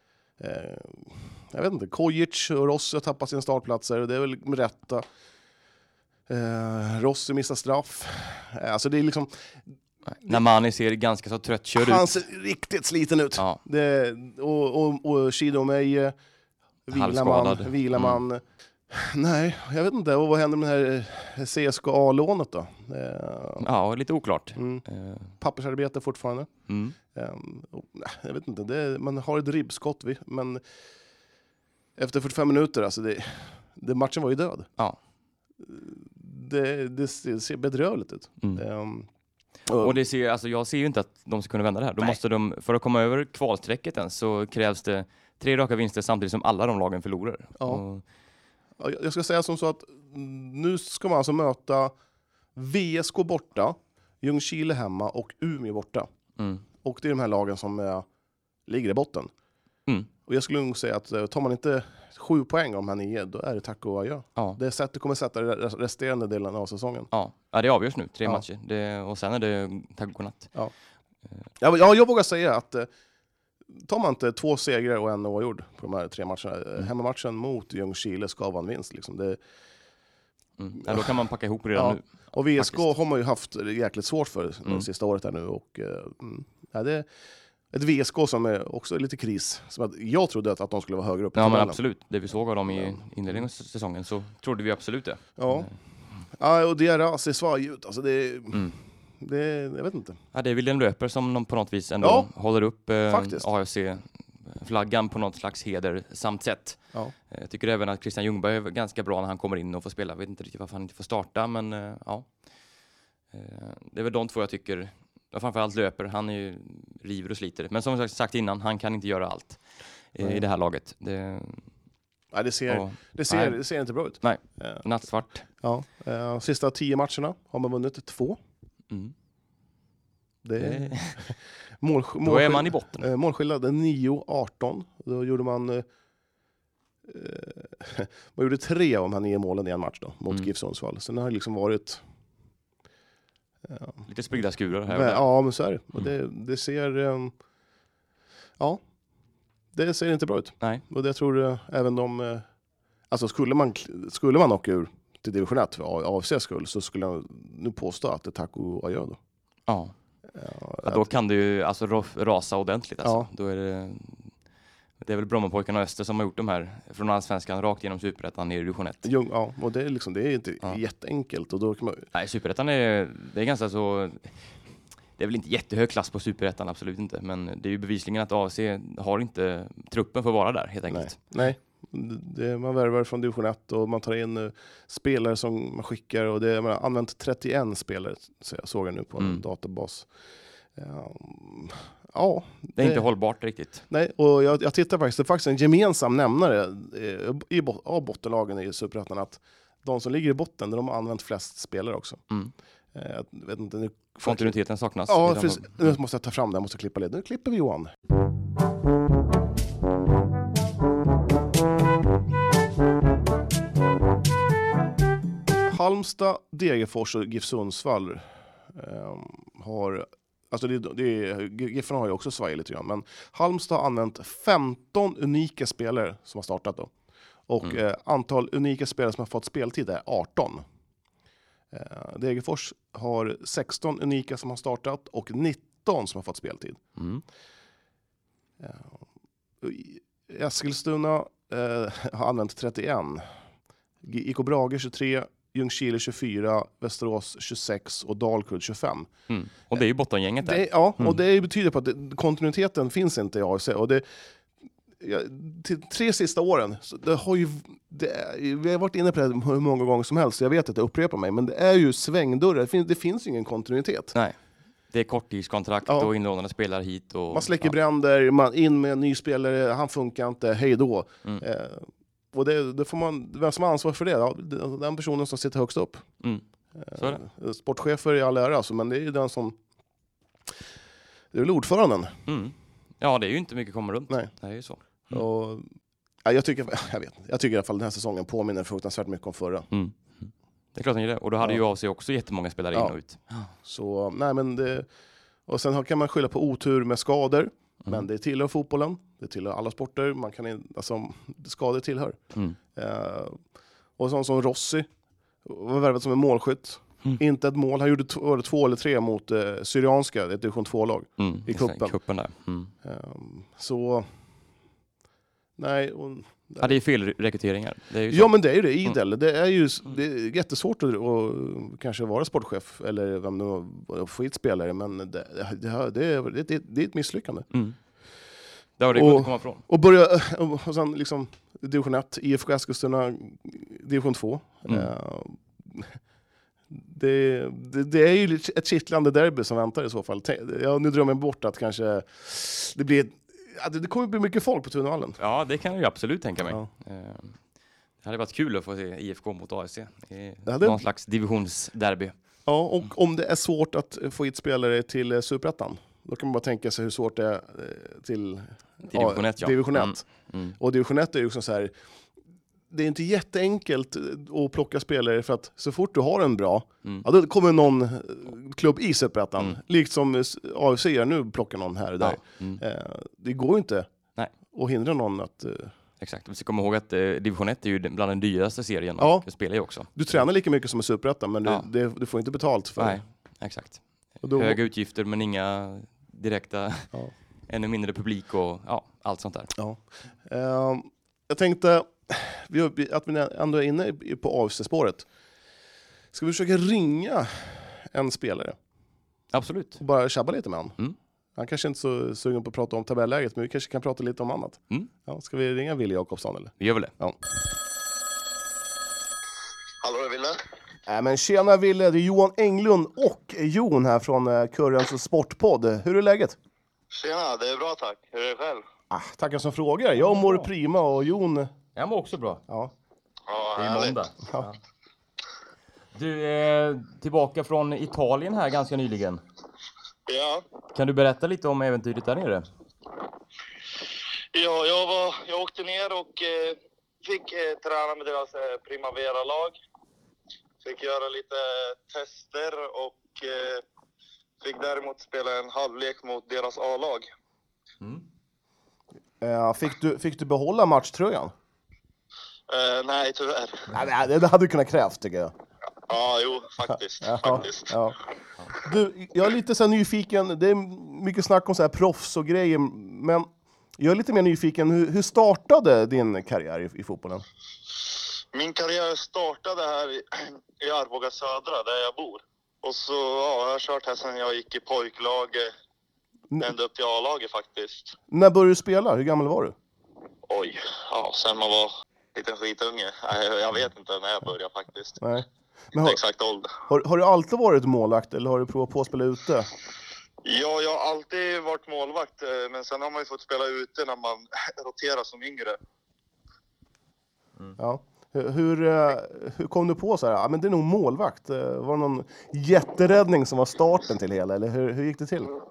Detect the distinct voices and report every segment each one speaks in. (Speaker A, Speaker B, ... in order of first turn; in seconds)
Speaker A: 0.4-5.0, 6.3-9.5, 11.8-16.1, 16.9-23.7, 24.5-24.8, 25.4-26.5, 27.1-30.6, 32.0-34.7, 35.6-39.1, 39.7-40.0, 48.8-51.9, 52.5-56.1, 56.8-58.0, 58.7-59.3, 60.2-67.1, 71.6-72.9, 73.8-79.4, 80.8-81.1, 81.7-87.0, 87.7-91.8, 92.7-93.4, 95.4-95.7, 96.3-98.6, 99.2-100.2, 102.0-102.3, 103.1-103.5, 122.3-124.8, 125.6-128.4, 130.4-135.8, 137.0-142.0, 143.7-144.0, 144.9-147.3, 149.7-152.4, 153.1-159.2, 160.3-161.1, 163.0-163.3, 169.0-172.1, 180.9-190.1, 190.7-193.1, 193.9-202.2, 202.9-204.6, 205.1-207.9, 215.7-226.9, 227.5-230.6, 231.7-236.8, 238.6-238.9, 239.6-243.2, 244.0-249.1, 250.4-254.0, 255.0-264.1, 265.9-266.1, 267.3-276.1, 276.8-279.6, 281.3-282.2, 285.1-285.7, 286.2-289.7, 293.6-294.9, 295.5-302.2, 302.7-303.4, 304.0-304.9, 305.4-311.9, 312.8-314.1, 315.6-316.7, 318.1-327.5, 328.9-335.9, 336.7-345.2, 350.4-350.8, 352.4-360.0, 360.6-361.7, 362.7-373.9, 374.5-375.7, 379.0-379.3, 379.9-383.0, 384.2-384.6, 389.6-395.1, 396.1-398.6, 399.8-400.8, 401.4-407.2, 410.9-416.4, 418.9-421.5, 449.2-451.3, 453.7-455.3, 457.0-458.0, 458.6-467.2, 478.1-479.5, 485.0-486.0, 486.7-489.5, 497.6-505.3
Speaker B: 10.1-12.1, 16.9-18.2, 23.6-25.3, 26.7-27.0, 39.8-48.0, 56.4-56.6, 67.1-70.5, 80.6-82.9, 91.3-95.7, 100.3-112.3, 113.3-119.6, 120.1-121.7, 122.7-123.6, 124.2-125.4, 130.6-131.2, 132.2-133.1, 144.1-145.2, 159.7-159.9, 160.8-164.3, 165.0-169.0, 172.1-174.3, 175.2-181.2, 192.8-193.8, 204.2-205.9, 237.0-237.2, 249.3-251.2, 264.9-267.7, 276.2-277.2, 282.2-285.2, 289.7-293.5, 311.2-312.7, 316.6-318.9, 327.5-327.8, 328.8-329.6, 345.2-347.4, 348.0-352.1, 358.9-360.6, 372.0-372.6, 376.0-380.2, 382.8-386.9, 387.5-389.5, 399.3-399.8, 406.6-406.9, 420.0-420.5, 421.8-422.4, 423.6-424.6, 425.9-429.2, 430.7-432.5
Speaker C: 409.8-410.4, 416.9-418.6, 423.3-424.0, 430.1-430.4, 434.3-439.6, 440.6-443.6, 444.4-447.1, 452.5-453.7, 455.9-457.8, 468.3-475.5, 476.4-477.9, 480.3-485.0, 485.8-486.6, 490.2-495.6